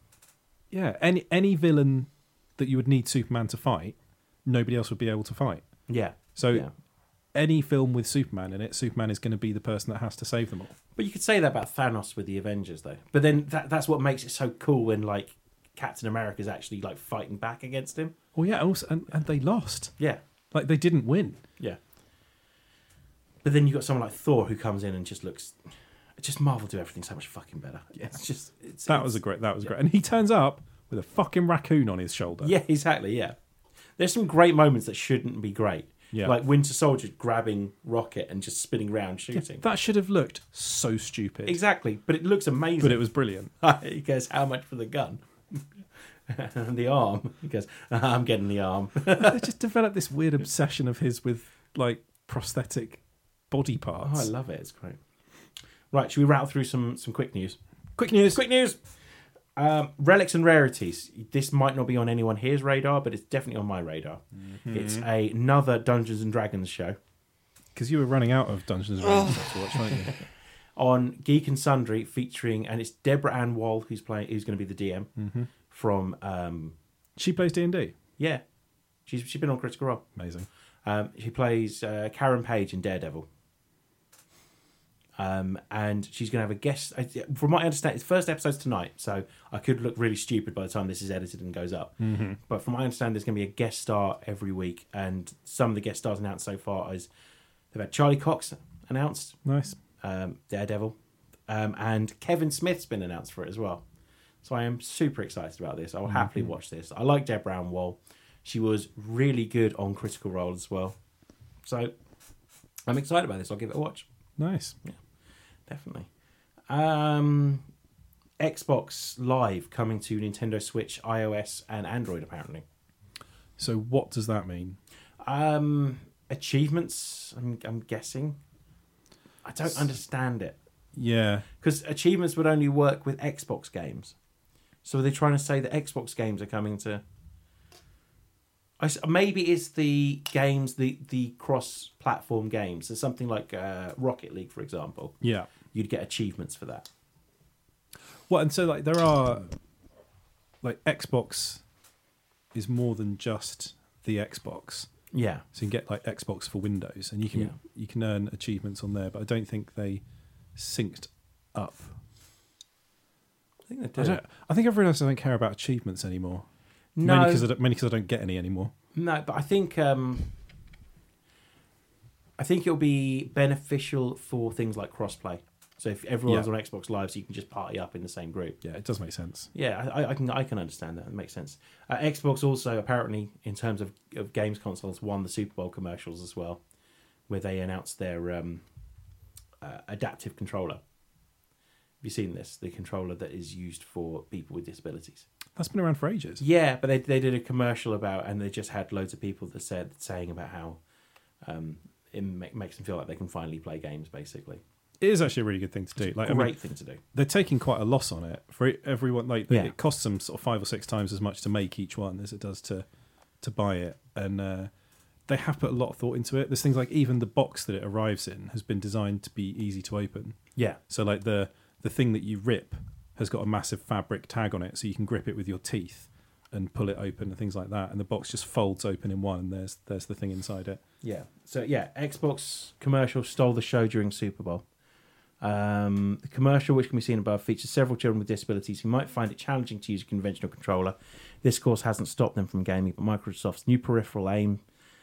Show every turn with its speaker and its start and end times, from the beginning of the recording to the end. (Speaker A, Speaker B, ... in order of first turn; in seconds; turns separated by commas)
Speaker A: 0.7-5.7, Speaker B: 5.9-6.7, Speaker A: 6.3-6.7, Speaker A: 7.3-10.7, Speaker B: 10.9-18.1, Speaker A: 18.3-20.0, Speaker A: 20.5-21.4, Speaker B: 23.4-25.6, Speaker B: 26.2-29.7, Speaker A: 28.9-32.5, Speaker B: 32.4-33.4, Speaker B: 34.0-39.6, Speaker A: 39.3-41.6, Speaker B: 41.5-43.1, Speaker A: 42.8-43.5, Speaker B: 43.6-45.7, Speaker B: 46.3-49.5, Speaker A: 49.2-54.3, Speaker B: 54.0-55.0, Speaker B: 55.9-57.6, Speaker A: 58.0-58.4, Speaker B: 58.2-58.8, Speaker B: 59.5-67.0, Speaker A: 64.5-65.1, Speaker A: 67.7-70.2, Speaker B: 70.8-75.1, Speaker A: 75.2-75.5, Speaker B: 75.7-76.7, Speaker A: 77.2-77.9, Speaker B: 79.0-80.0, Speaker A: 80.2-80.5, Speaker B: 80.8-83.3, Speaker B: 85.2-97.1, Speaker A: 92.0-92.4, Speaker B: 97.7-99.4, Speaker A: 99.4-99.8, Speaker B: 100.0-101.0, Speaker B: 101.5-103.8, Speaker B: 104.4-111.0, Speaker A: 106.0-106.5, Speaker B: 111.6-111.9, Speaker B: 112.9-114.0, Speaker A: 114.4-114.8, Speaker B: 115.7-116.1, Speaker B: 116.7-117.6, Speaker B: 118.4-122.6, Speaker A: 123.6-124.8, Speaker B: 125.2-128.4, Speaker B: 129.4-130.6, Speaker A: 130.9-131.5, Speaker B: 131.6-134.2, Speaker B: 134.8-137.0, Speaker B: 138.8-145.2, Speaker A: 145.2-145.5, Speaker B: 145.7-146.9, Speaker A: 148.3-149.5, Speaker A: 150.6-151.6, Speaker A: 152.5-154.9, Speaker B: 155.1-155.4, Speaker A: 155.5-160.0, Speaker A: 160.5-162.0, Speaker B: 163.7-164.2, Speaker A: 164.0-166.4, Speaker B: 166.9-167.4, Speaker A: 167.0-168.7, Speaker B: 168.9-170.3, Speaker B: 172.4-178.6, Speaker A: 178.6-179.5, Speaker B: 179.5-186.6, Speaker B: 187.3-188.6, Speaker B: 189.6-190.8, Speaker B: 192.0-195.2, Speaker A: 195.6-196.4, Speaker B: 196.4-200.8, Speaker B: 201.4-204.6, Speaker A: 205.0-206.6, Speaker B: 206.0-207.0, Speaker A: 207.1-212.8, Speaker A: 213.4-214.7, Speaker A: 215.3-230.8, Speaker B: 231.0-234.7, Speaker B: 235.4-244.6